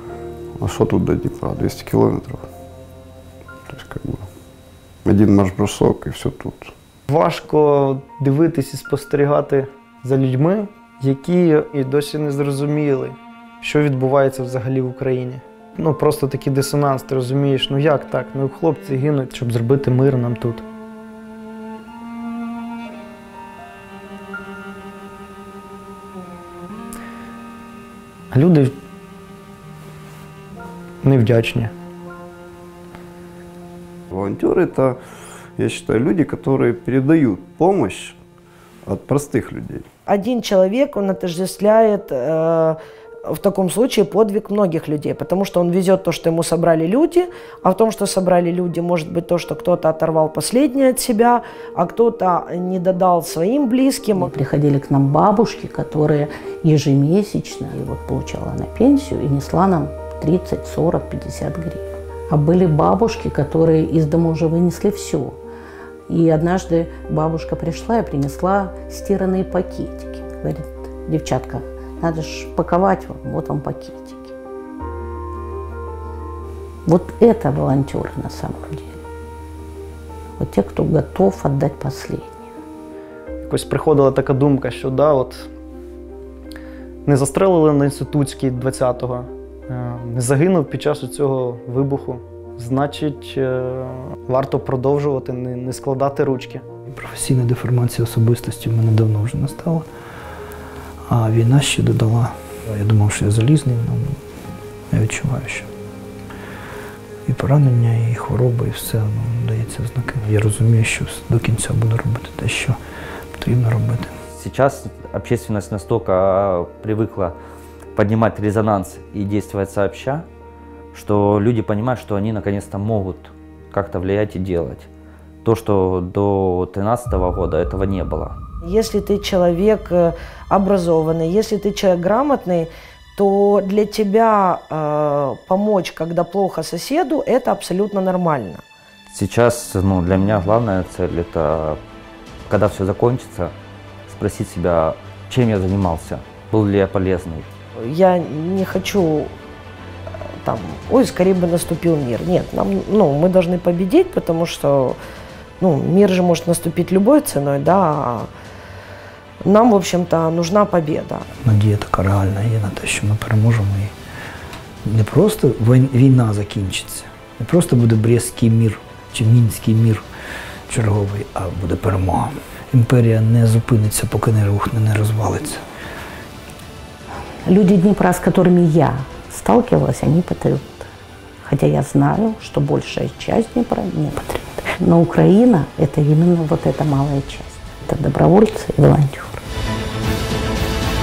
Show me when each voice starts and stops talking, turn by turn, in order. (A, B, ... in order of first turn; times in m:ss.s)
0:00.6-0:02.4 A
0:03.7-0:04.2 A
0:05.0-0:06.7 A
0:07.1-0:20.6 B
0:28.3-0:28.8 B
0:31.0-0:31.7 B
0:34.1-0:35.0 A
0:35.6-0:38.2 A
0:38.9-0:39.9 A
0:40.1-0:54.3 C
0:54.1-1:05.4 D
1:06.1-1:14.4 D
1:16.9-1:19.0 D
1:20.4-1:22.5 D
1:23.4-1:25.5 B
1:27.0-1:36.6 B
1:36.9-1:39.9 E
1:41.1-1:44.1 E
1:44.9-1:45.7 E
1:47.3-1:52.8 E
1:53.4-1:54.1 E
1:54.3-1:57.4 F
1:57.9-2:00.2 F
2:00.9-2:04.9 F
2:05.4-2:08.4 F
2:08.6-2:18.6 C
2:19.1-2:21.8 F
2:22.5-2:23.5 F
2:24.1-2:27.5 F
2:27.9-2:29.3 C
2:30.4-2:35.0 C
2:35.6-2:38.3 C
2:39.4-2:41.2 C
2:41.4-2:43.9 E
2:44.8-2:50.0 E
2:50.7-2:55.6 E
2:57.4-3:00.9 D
3:01.4-3:09.4 D